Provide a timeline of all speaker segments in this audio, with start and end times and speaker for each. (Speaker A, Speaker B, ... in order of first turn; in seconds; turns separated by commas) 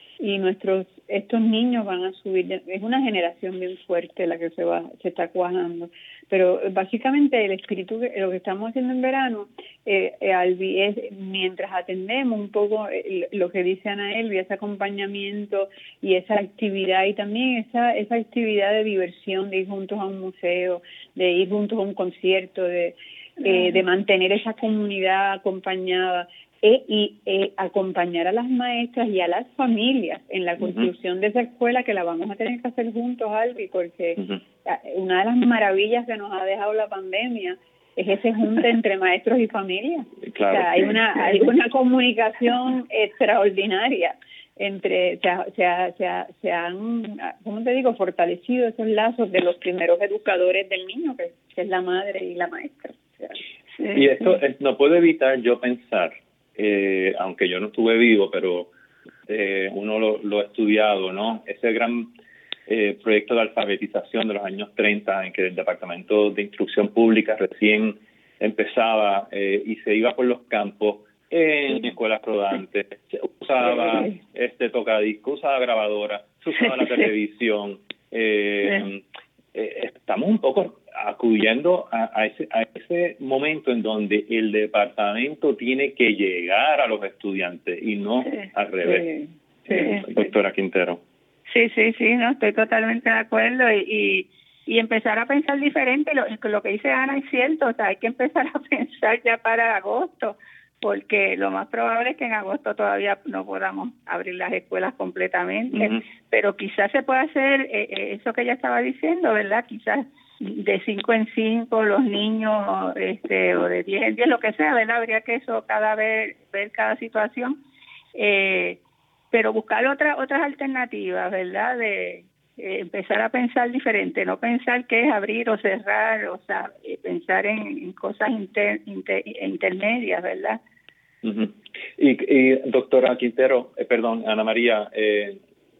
Speaker A: 0.2-53.4, Speaker B: 40.3-41.0, Speaker B: 53.9-58.7, Speaker B: 59.3-62.1, Speaker B: 62.7-79.0, Speaker B: 79.5-89.1, Speaker A: 88.8-90.0, Speaker B: 89.7-91.0, Speaker C: 89.8-90.1, Speaker C: 91.5-117.6, Speaker B: 105.7-106.0, Speaker C: 118.1-118.8, Speaker C: 119.3-130.6, Speaker B: 131.2-135.4